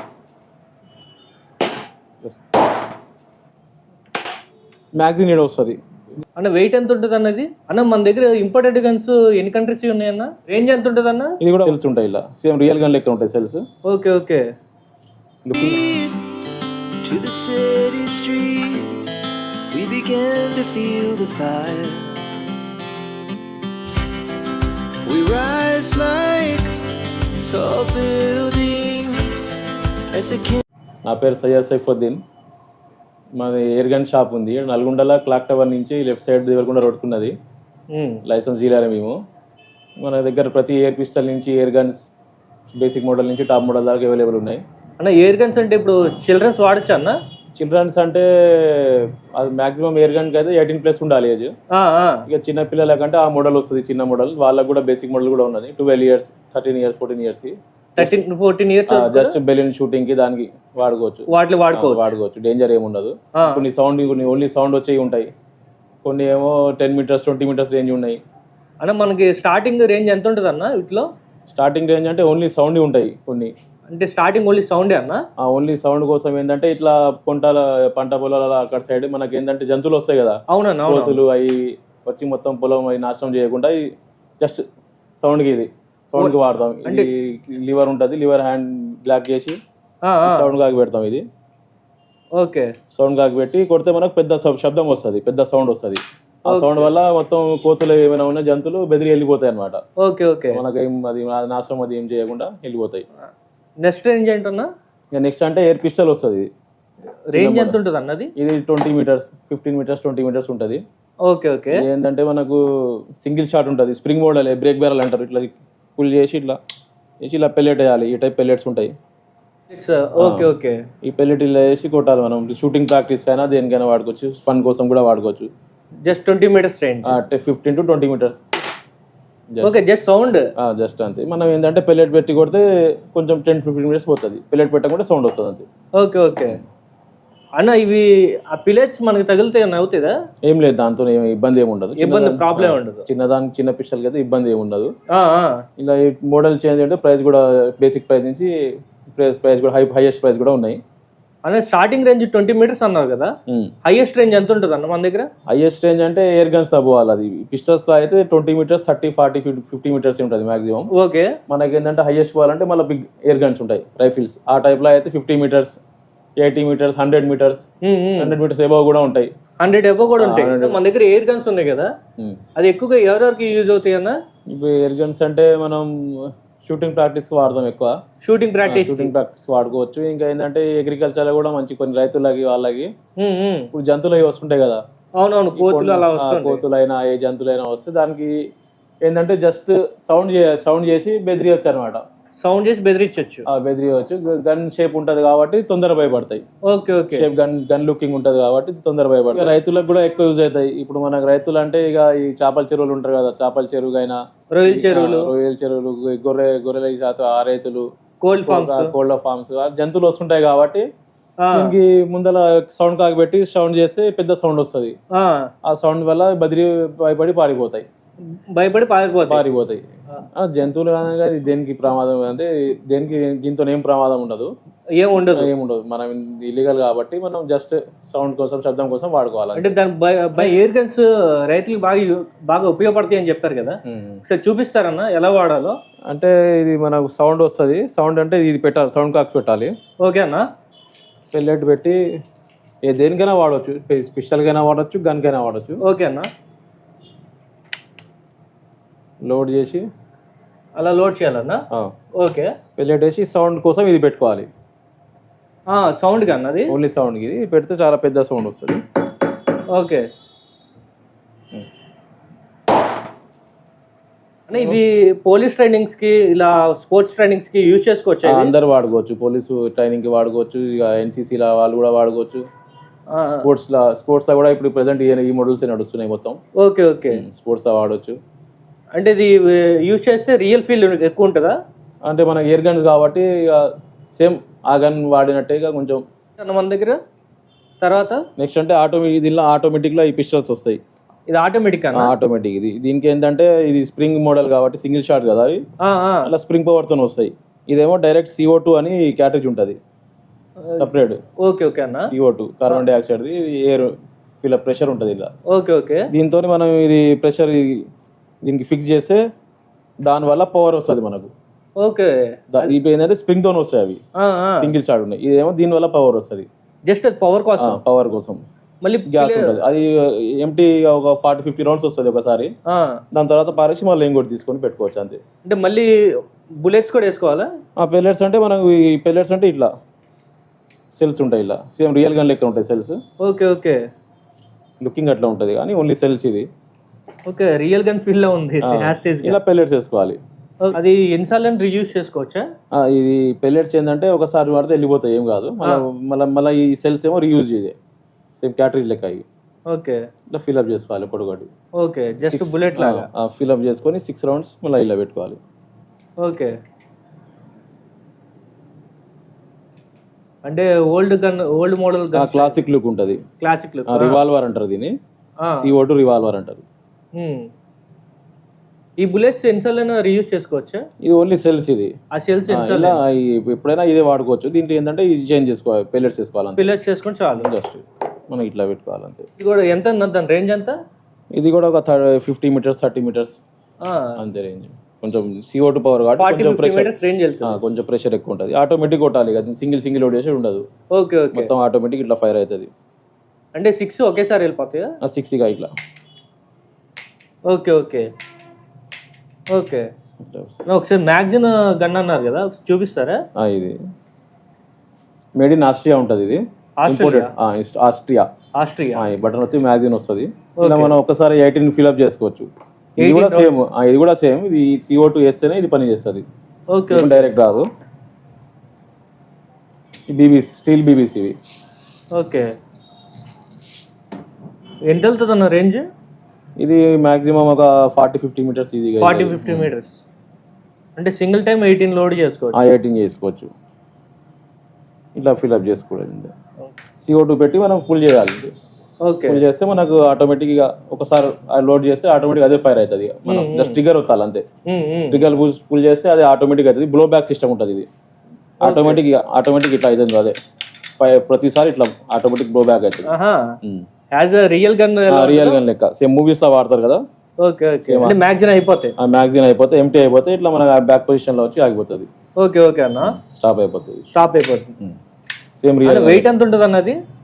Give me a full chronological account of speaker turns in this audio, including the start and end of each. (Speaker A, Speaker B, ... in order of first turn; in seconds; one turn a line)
Speaker A: 5.0-6.2
Speaker B: 6.4-11.4
Speaker A: 11.4-13.6
Speaker B: 13.9-14.5
Speaker A: 15.4-15.9
Speaker C: 15.6-16.4
Speaker C: 17.0-22.1
Speaker C: 25.1-26.7
Speaker C: 27.4-30.6
Speaker A: 31.1-32.2
Speaker A: 33.4-37.3
Speaker B: 37.9-38.2
Speaker A: 38.3-39.2
Speaker A: 40.0-42.0
Speaker A: 42.7-44.6
Speaker B: 45.0-47.2
Speaker A: 47.6-51.5
Speaker B: 51.7-52.2
Speaker A: 52.3-58.3
Speaker B: 58.0-59.4
Speaker A: 58.9-65.3
Speaker B: 61.3-62.1
Speaker B: 63.4-63.6
Speaker A: 66.0-68.2
Speaker B: 68.8-71.1
Speaker A: 71.5-73.5
Speaker B: 73.9-75.2
Speaker A: 75.4-83.8
Speaker B: 80.5-81.2
Speaker A: 85.2-89.6
Speaker B: 90.0-90.5
Speaker A: 90.3-91.2
Speaker B: 92.4-92.7
Speaker A: 92.9-99.8
Speaker B: 96.5-96.9
Speaker B: 100.0-100.6
Speaker A: 100.5-103.0
Speaker B: 103.8-104.7
Speaker A: 105.1-106.5
Speaker B: 107.3-108.3
Speaker A: 107.3-107.8
Speaker A: 108.4-110.8
Speaker B: 111.3-111.8
Speaker A: 111.7-112.6
Speaker A: 113.2-116.6
Speaker A: 117.2-118.9
Speaker B: 119.7-120.8
Speaker A: 120.2-120.5
Speaker A: 121.0-125.5
Speaker B: 126.1-127.2
Speaker A: 127.0-128.4
Speaker A: 129.5-129.8
Speaker B: 129.6-130.5
Speaker A: 130.6-135.7
Speaker B: 136.0-136.6
Speaker B: 137.6-140.2
Speaker A: 140.5-144.9
Speaker B: 142.0-143.1
Speaker B: 145.1-145.6
Speaker A: 145.8-148.5
Speaker A: 149.1-150.8
Speaker B: 151.5-153.3
Speaker B: 153.9-155.3
Speaker A: 155.5-160.9
Speaker B: 160.9-161.3
Speaker A: 161.5-165.8
Speaker A: 166.4-167.6
Speaker B: 167.8-168.3
Speaker A: 168.2-169.3
Speaker B: 169.6-171.9
Speaker A: 170.2-170.8
Speaker B: 172.6-174.2
Speaker A: 174.6-177.9
Speaker B: 178.2-179.1
Speaker A: 178.7-182.9
Speaker B: 183.2-183.7
Speaker A: 183.7-184.8
Speaker B: 185.2-186.6
Speaker A: 185.6-188.3
Speaker A: 189.1-192.0
Speaker B: 192.4-193.4
Speaker A: 193.5-196.4
Speaker B: 196.7-197.3
Speaker A: 197.1-207.8
Speaker B: 204.5-205.3
Speaker B: 208.2-208.9
Speaker A: 208.4-210.8
Speaker B: 211.4-211.8
Speaker A: 211.5-215.0
Speaker B: 215.2-215.5
Speaker A: 215.7-217.8
Speaker B: 218.5-219.4
Speaker A: 219.3-219.8
Speaker A: 220.3-224.5
Speaker B: 225.0-225.5
Speaker A: 225.3-229.8
Speaker B: 229.6-235.8
Speaker A: 233.9-234.2
Speaker A: 236.1-239.7
Speaker B: 240.0-240.5
Speaker A: 241.3-242.0
Speaker A: 242.8-245.8
Speaker B: 245.8-246.3
Speaker A: 249.2-249.8
Speaker B: 250.8-251.6
Speaker B: 252.2-252.5
Speaker A: 252.8-254.5
Speaker B: 255.7-256.8
Speaker A: 256.7-258.8
Speaker B: 259.7-260.1
Speaker B: 264.5-268.5
Speaker A: 264.6-264.8
Speaker A: 268.2-272.4
Speaker B: 273.1-273.4
Speaker A: 273.4-276.4
Speaker B: 276.6-277.2
Speaker A: 277.1-278.2
Speaker B: 279.0-281.6
Speaker A: 282.1-286.0
Speaker B: 286.4-287.0
Speaker B: 287.8-288.2
Speaker A: 288.4-290.8
Speaker B: 291.3-292.1
Speaker A: 291.9-295.6
Speaker B: 295.8-296.3
Speaker A: 296.3-299.8
Speaker B: 300.6-300.9
Speaker A: 300.8-301.2
Speaker B: 301.4-302.1
Speaker A: 302.0-305.3
Speaker B: 305.5-306.1
Speaker A: 306.1-307.8
Speaker A: 308.4-309.2
Speaker A: 310.1-311.3
Speaker B: 311.8-312.7
Speaker A: 312.5-314.0
Speaker B: 314.2-314.7
Speaker A: 314.6-316.5
Speaker B: 316.9-317.8
Speaker A: 317.6-318.4
Speaker B: 318.8-319.6
Speaker A: 319.1-322.5
Speaker B: 322.7-323.0
Speaker A: 323.1-325.2
Speaker B: 325.5-327.5
Speaker A: 327.8-329.7
Speaker A: 331.0-333.0
Speaker B: 333.2-333.8
Speaker A: 334.8-336.5
Speaker B: 337.3-339.4
Speaker A: 338.6-340.2
Speaker B: 340.6-342.4
Speaker A: 342.7-347.8
Speaker A: 348.4-349.2
Speaker B: 349.7-350.0
Speaker A: 350.3-351.5
Speaker B: 351.8-353.1
Speaker A: 352.2-355.4
Speaker B: 356.2-356.6
Speaker B: 360.5-362.6
Speaker A: 362.1-363.2
Speaker B: 363.4-364.2
Speaker A: 363.9-364.9
Speaker B: 365.4-365.7
Speaker A: 365.5-366.6
Speaker B: 367.2-367.5
Speaker B: 369.0-370.9
Speaker A: 371.0-371.9
Speaker B: 372.1-373.0
Speaker A: 372.5-376.7
Speaker B: 376.6-377.5
Speaker A: 377.4-379.3
Speaker B: 379.4-380.8
Speaker A: 381.3-383.4
Speaker B: 383.8-384.1
Speaker A: 384.2-386.9
Speaker B: 386.2-387.6
Speaker A: 387.4-390.6
Speaker B: 390.9-391.5
Speaker A: 391.3-392.7
Speaker B: 393.6-394.9
Speaker A: 395.0-395.7
Speaker B: 397.5-398.1
Speaker B: 399.5-399.9
Speaker A: 400.2-400.6
Speaker B: 400.7-403.2
Speaker A: 403.4-403.8
Speaker A: 405.4-408.3
Speaker B: 406.8-407.3
Speaker B: 408.6-409.0
Speaker A: 409.0-412.5
Speaker B: 410.6-411.0
Speaker B: 413.0-413.6
Speaker A: 413.0-416.2
Speaker B: 416.7-417.3
Speaker A: 416.9-417.7
Speaker A: 420.1-421.4
Speaker B: 422.2-422.5
Speaker B: 424.9-425.9
Speaker A: 426.6-429.7
Speaker B: 429.0-430.0
Speaker B: 431.0-432.6
Speaker A: 432.6-433.5
Speaker A: 435.2-436.3
Speaker A: 437.0-438.5
Speaker B: 439.1-439.4
Speaker A: 439.3-444.4
Speaker B: 443.3-443.8
Speaker B: 444.7-445.2
Speaker A: 445.1-447.9
Speaker A: 448.6-450.4
Speaker B: 448.6-449.0
Speaker A: 451.0-453.1
Speaker B: 453.1-453.6
Speaker B: 454.1-455.6
Speaker A: 455.1-457.0
Speaker B: 457.4-458.9
Speaker A: 457.8-458.2
Speaker A: 459.0-462.1
Speaker B: 462.4-463.2
Speaker A: 463.0-464.1
Speaker B: 464.1-464.7
Speaker A: 465.6-466.3
Speaker B: 465.9-467.0